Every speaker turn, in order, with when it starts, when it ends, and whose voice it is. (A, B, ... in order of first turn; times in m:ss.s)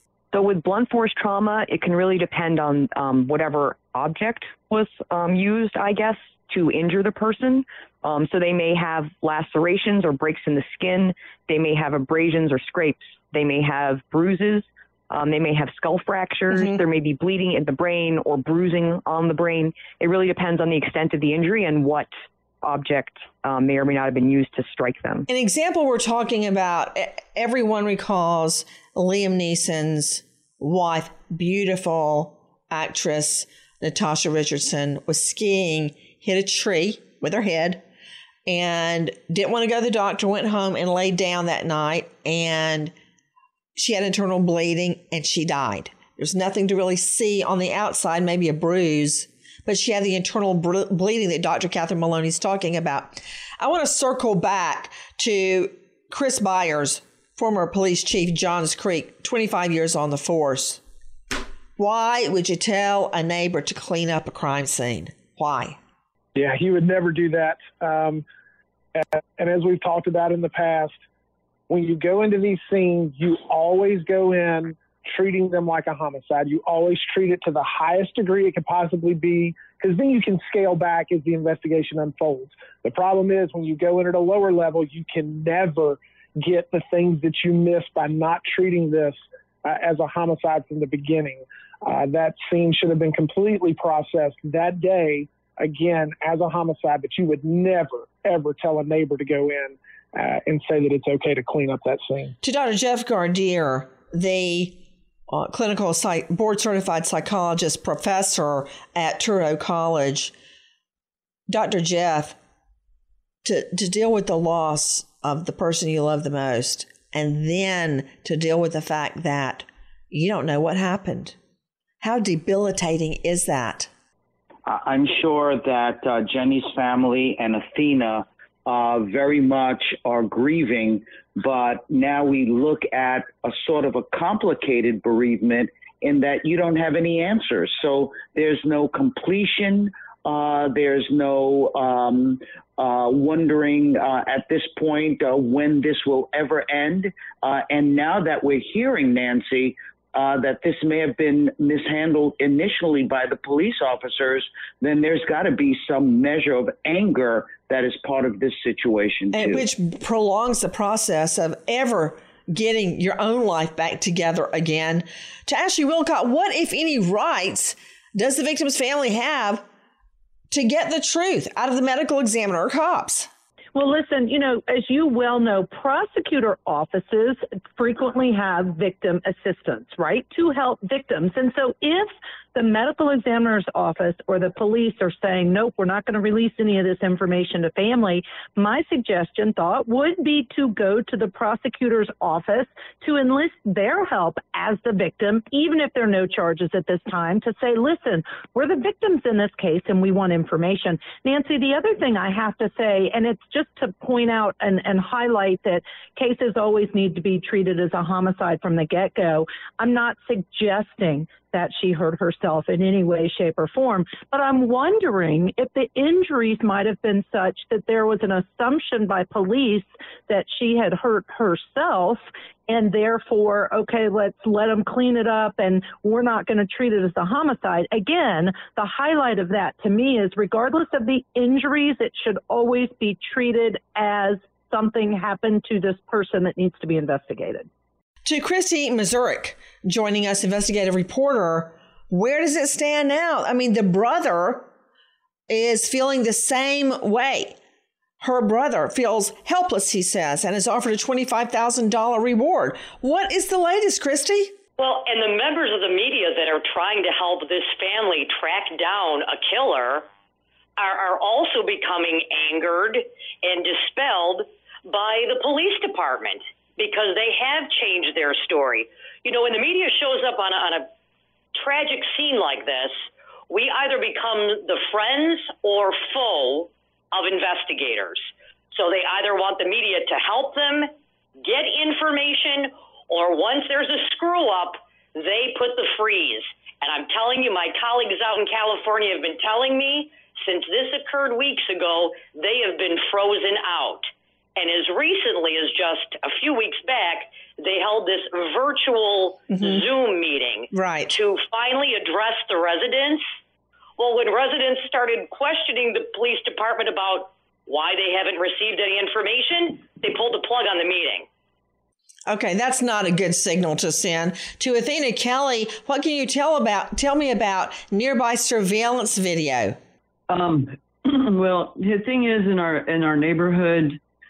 0:00.3-0:22.1 A
0:16.5-0:16.8 B
0:22.6-0:25.3 A
0:25.3-0:37.8 B
0:38.4-0:42.9 B
0:43.8-1:00.8 B
1:01.8-1:05.8 B
1:06.4-1:08.2 C
1:08.9-1:11.0 C
1:11.7-1:42.3 C
1:42.4-1:50.3 B
1:51.5-1:52.4 B
1:53.4-2:01.4 B
2:02.0-2:03.9 B
2:04.6-2:39.7 D
2:39.3-2:49.6 B
2:50.5-2:53.3 B
2:53.7-3:57.7 E
3:58.2-4:04.7 B
4:05.5-4:07.6 B
4:08.2-4:14.5 B
4:14.8-4:20.1 F
4:20.8-4:30.9 F
4:31.5-5:03.2 F
4:59.5-4:59.8 B
5:00.7-5:01.2 B
5:04.0-5:11.2 F
5:12.3-5:19.8 B
5:20.3-5:24.0 G